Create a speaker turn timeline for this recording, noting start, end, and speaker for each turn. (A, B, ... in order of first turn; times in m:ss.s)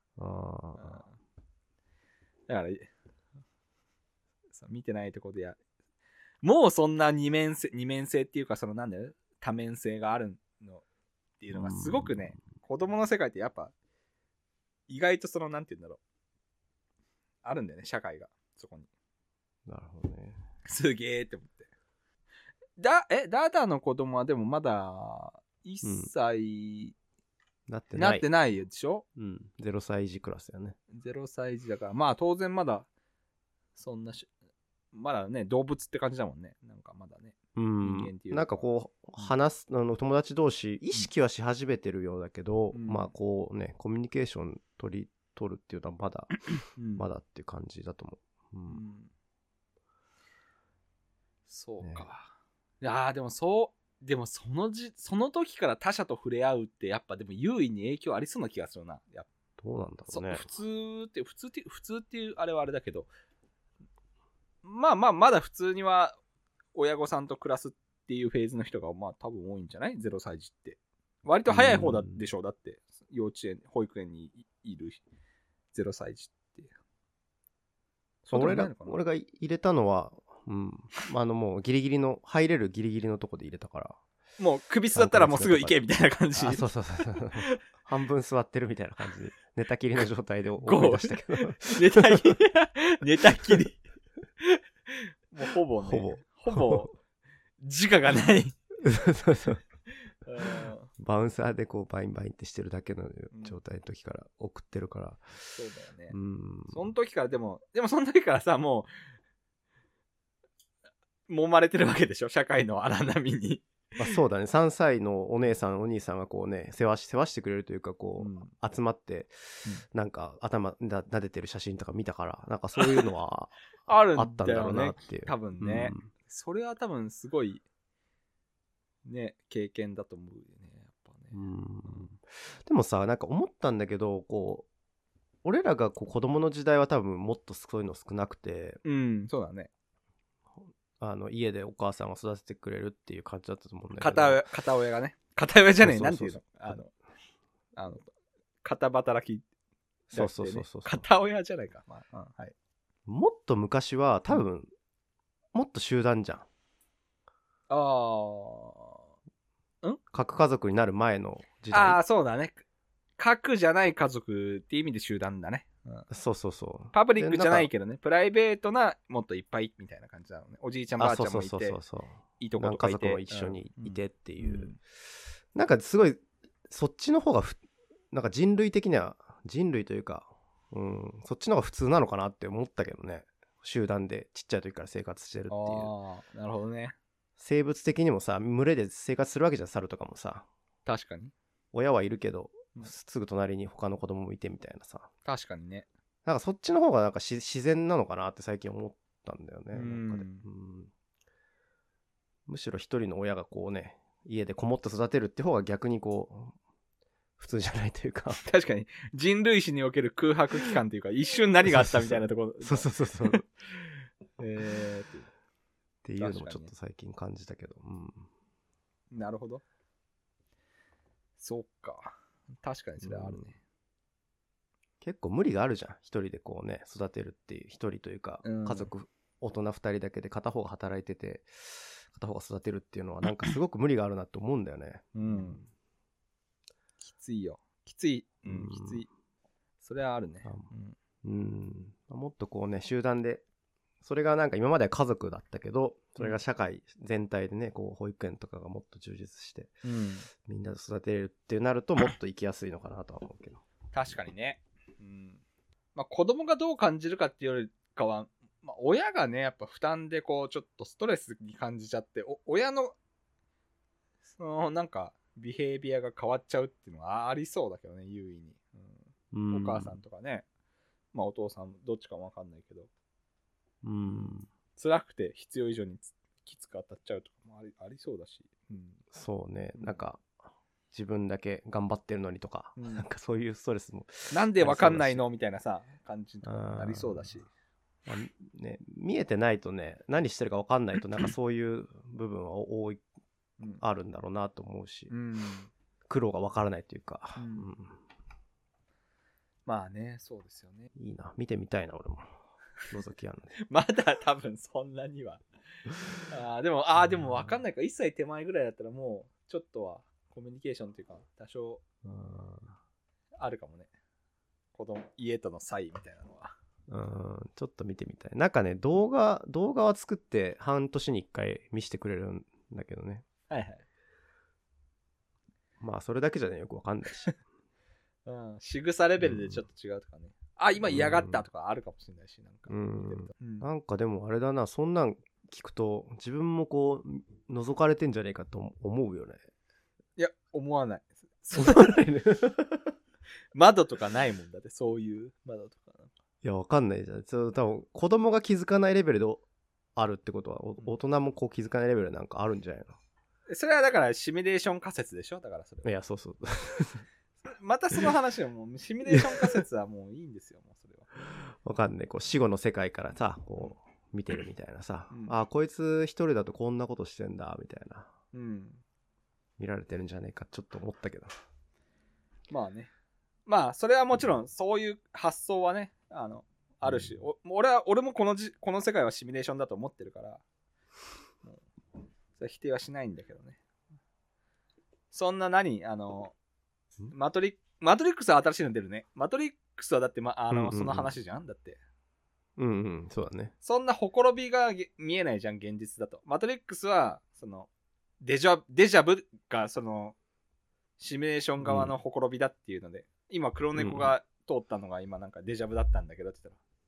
0:00.2-0:01.0 A
0:00.8-0:01.1 B
0:02.5-0:02.9 B
0:04.5-0:05.6 B
0:06.4-0:10.8 B
0:11.4-0:13.7 B
0:11.5-0:12.2 A
0:14.9-0:16.0 B
0:17.4-0:18.9 B
0:19.7-0:20.4 A
0:20.6-0:21.7 B
0:22.8-0:26.9 B
0:25.8-0:26.1 A
0:27.7-0:28.3 A
0:27.9-0:29.0 B
0:29.2-0:30.8 A
0:30.9-0:32.9 B
0:33.8-0:34.3 B
0:34.9-0:38.6 B
0:37.6-0:46.4 A
0:42.7-0:43.1 B
0:46.8-0:47.0 B
0:47.0-0:48.8 A
0:48.7-0:49.1 B
0:51.5-0:59.3 B
0:51.8-0:52.1 A
0:59.6-1:00.5 A
1:00.1-1:03.1 B
1:04.6-1:06.1 B
1:06.7-1:15.0 B
1:11.5-1:12.3 A
1:15.7-1:16.7 B
1:18.2-1:19.0 B
1:18.3-1:24.0 A
1:24.4-1:26.6 B
1:24.9-1:25.7 A
1:26.4-1:32.4 A
1:30.6-1:33.8 B
1:34.4-1:36.9 B
1:35.8-1:36.9 A
1:37.6-1:38.6 B
1:38.8-1:39.6 A
1:40.2-1:40.9 B
1:41.0-1:45.5 A
1:43.3-1:43.6 B
1:45.5-1:46.1 B
1:46.1-1:46.9 A
1:46.7-1:48.9 B
1:51.3-1:53.6 B
1:54.0-2:06.1 A
1:58.2-1:58.5 B
2:03.9-2:07.6 B
2:09.0-2:11.3 B
2:11.3-2:14.7 A
2:15.4-2:18.8 A
2:18.8-2:19.7 B
2:21.0-2:24.4 A
2:24.0-2:26.9 B
2:25.8-2:26.8 A
2:27.8-2:28.1 B
2:28.6-2:29.4 B
2:30.1-2:31.1 A
2:30.1-2:32.5 B
2:33.1-2:34.7 A
2:35.5-2:36.4 A
2:37.7-2:39.0 B
2:40.1-2:42.0 A
2:41.7-2:42.6 B
2:43.2-2:46.0 B
2:46.1-2:47.7 A
2:46.9-2:51.8 B
2:51.0-2:54.8 A
2:52.4-2:54.8 B
2:55.5-2:57.6 A
2:58.1-3:05.9 A
3:05.5-3:07.0 B
3:07.4-3:10.5 A
3:10.8-3:11.3 B
3:11.7-3:15.1 A
3:15.2-3:15.9 B
3:16.2-3:20.9 A
3:19.7-3:20.4 B
3:22.5-3:26.5 A
3:27.4-3:28.4 A
3:28.4-3:35.3 B
3:31.7-3:33.4 A
3:36.0-3:38.3 A
3:36.2-3:36.7 B
3:39.1-3:39.6 B
3:41.4-3:43.6 B
3:43.0-3:43.5 A
3:45.0-3:55.7 A
3:48.4-3:48.9 B
3:55.1-3:55.6 B
3:57.0-3:59.1 B
3:58.5-3:59.0 A
3:59.8-4:01.0 B
4:00.4-4:00.7 A
4:01.2-4:03.4 A
4:04.0-4:09.7 A
4:09.8-4:10.3 B
4:10.4-4:13.6 A
4:13.9-4:15.4 B
4:15.9-4:23.0 B
4:24.4-4:30.4 B
4:29.3-4:30.0 A
4:31.1-4:32.9 B
4:33.8-4:34.5 A
4:34.1-4:39.0 B
4:39.1-4:40.2 A
4:40.9-4:45.2 A
4:42.8-4:43.0 B
4:44.3-4:47.5 B
4:46.4-4:47.3 A
4:48.1-4:53.0 A
4:53.8-4:55.1 A
4:55.1-4:55.7 B
4:56.1-4:58.0 A
4:57.4-4:57.7 B
4:59.6-5:00.9 B
5:00.9-5:02.3 A
5:02.9-5:03.6 A
5:03.6-5:05.4 B
5:06.3-5:11.8 B
5:12.0-5:12.7 A
5:13.4-5:13.9 B
5:14.7-5:16.5 B
5:16.9-5:23.2 A
5:23.5-5:23.8 B
5:25.8-5:27.3 A
5:28.2-5:33.6 B
5:29.2-5:29.6 A
5:30.8-5:31.4 A
5:32.7-5:39.4 A
5:40.2-5:42.0 B
5:41.5-5:42.9 A
5:43.5-5:46.1 B
5:46.4-5:49.4 A
5:50.0-5:53.0 A
5:53.5-5:55.9 B
5:55.8-5:57.0 A
5:57.4-6:01.1 B
5:59.1-5:59.5 A
6:01.5-6:08.1 A
6:08.3-6:08.8 B
6:09.6-6:11.3 A
6:12.5-6:12.9 B
6:13.4-6:20.4 B
6:22.4-6:23.6 B
6:25.1-6:26.3 B
6:27.1-6:31.8 B
6:30.5-6:31.1 A
6:32.6-6:33.5 A
6:33.6-6:37.7 B
6:38.2-6:40.2 B
6:41.0-6:46.6 B
6:41.6-6:41.9 A
6:43.8-6:44.1 A